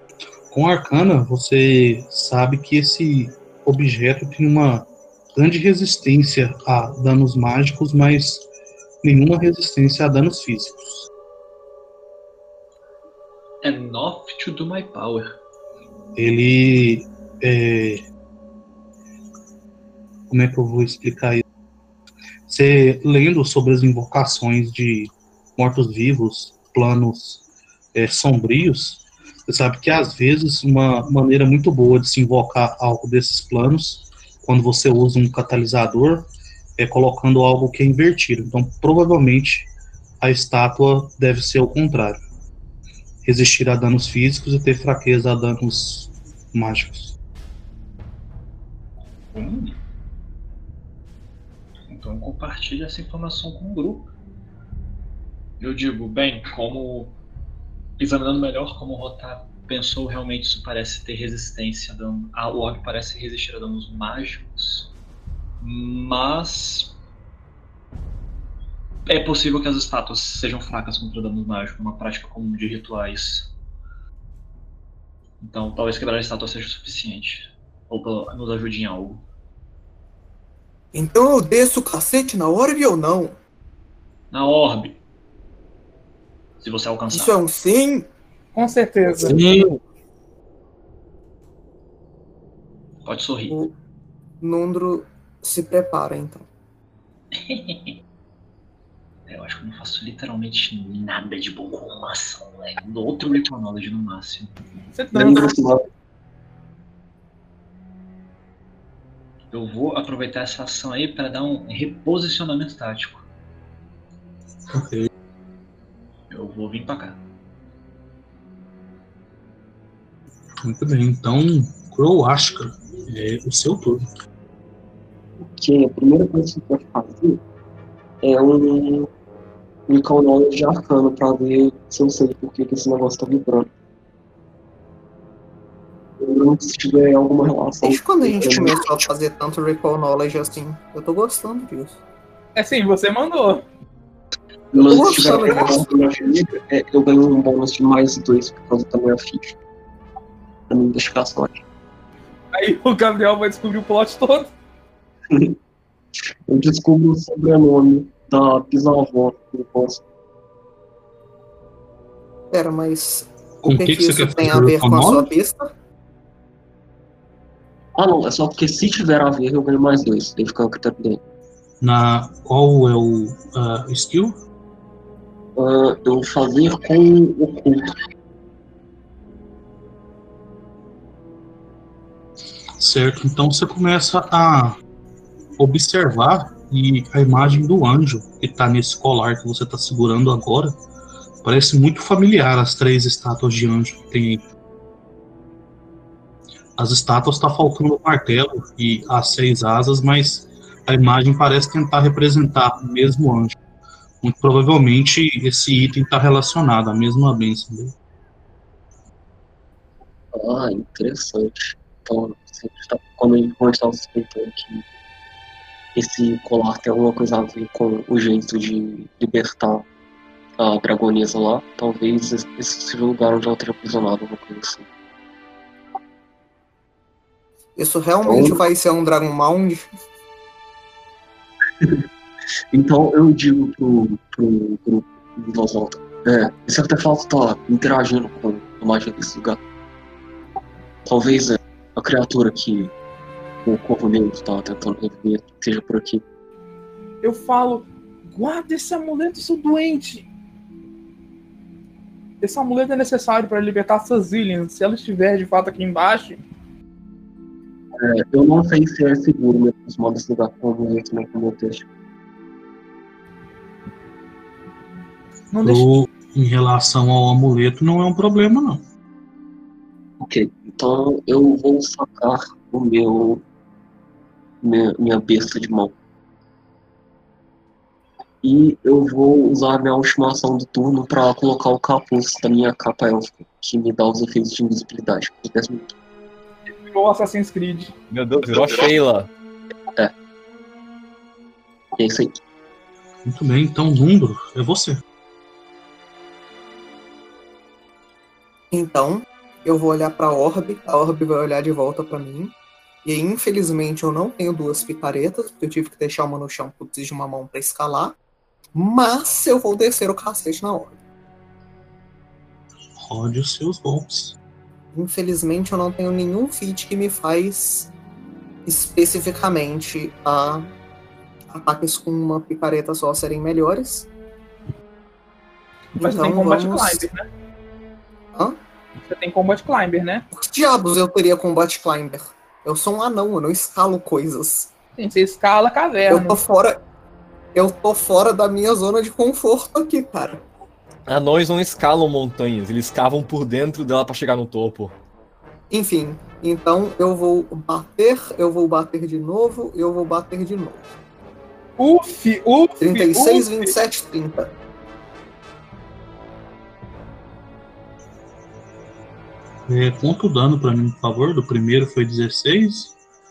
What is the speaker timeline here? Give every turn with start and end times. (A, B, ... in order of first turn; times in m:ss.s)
0:00.5-0:08.4 A
0:09.0-0:11.1 A
0:13.6-0:15.4 B
0:16.2-0:18.0 A
0:20.3-0:21.4 A
0:22.5-0:27.4 A
0:27.9-0:36.3 A
0:36.8-0:39.7 A
0:40.2-0:42.2 A
0:43.2-0:47.2 A
0:49.3-0:49.8 B
0:51.9-0:54.1 B
0:55.6-0:57.2 B
0:58.0-1:04.9 B
1:05.6-1:06.9 B
1:09.1-1:13.5 B
1:15.4-1:19.2 B
1:20.9-1:23.4 C
1:24.3-1:25.0 B
1:26.6-1:27.4 B
1:27.1-1:28.1 C
1:28.5-1:29.4 D
1:29.2-1:29.8 A
1:33.0-1:33.6 B
1:34.4-1:36.4 C
1:37.3-1:38.0 B
1:39.3-1:44.6 B
1:44.9-1:45.6 D
1:45.1-1:45.8 E
1:49.5-1:53.2 B
1:54.7-1:55.1 A
1:56.3-1:57.2 B
2:00.6-2:04.1 A
2:05.5-2:07.4 E
2:08.2-2:09.1 E
2:09.9-2:13.7 E
2:16.2-2:19.0 E
2:17.8-2:22.0 C
2:22.6-2:23.6 D
2:24.7-2:29.6 E
2:24.8-2:25.9 C
2:30.7-2:31.6 E
2:32.5-2:34.5 D
2:35.3-2:35.6 E
2:36.5-2:40.0 E
2:42.5-2:45.7 C
2:43.6-2:45.3 A
2:48.0-2:51.2 E
2:51.8-2:54.4 A
2:55.6-2:57.9 E
3:02.8-3:04.8 A
3:05.6-3:10.7 A
3:11.4-3:14.4 A
3:16.8-3:23.6 A
3:24.2-3:27.9 A
3:30.3-3:34.8 E
3:36.0-3:39.8 E
3:40.6-3:44.8 E
3:47.8-3:49.9 C
3:48.2-3:48.6 E
3:52.7-3:59.6 E
4:01.0-4:02.9 E
4:03.6-4:06.2 E
4:07.2-4:10.3 D
4:12.4-4:16.4 D
4:17.9-4:21.8 E
4:25.5-4:25.9 D
4:25.6-4:28.8 A
4:30.2-4:33.4 E
4:34.6-4:35.9 E
4:38.4-4:45.9 E
4:46.8-4:47.9 D
4:48.1-4:49.3 F
4:48.5-4:48.9 E
4:52.0-4:52.3 E
4:53.2-4:55.0 A
4:58.7-5:02.5 C
5:03.0-5:08.1 C
5:08.7-5:11.0 C
5:13.0-5:14.4 A
5:14.9-5:17.9 C
5:18.6-5:20.7 C
5:21.5-5:24.1 C
5:26.0-5:27.2 D
5:26.0-5:27.0 C
5:29.1-5:30.2 D
5:30.3-5:34.7 C
5:35.0-5:36.4 D
5:36.1-5:36.8 C
5:37.5-5:40.4 C
5:41.1-5:44.9 F
5:45.7-5:50.8 C
5:51.8-5:53.7 D
5:52.8-5:54.5 C
5:59.7-6:02.9 A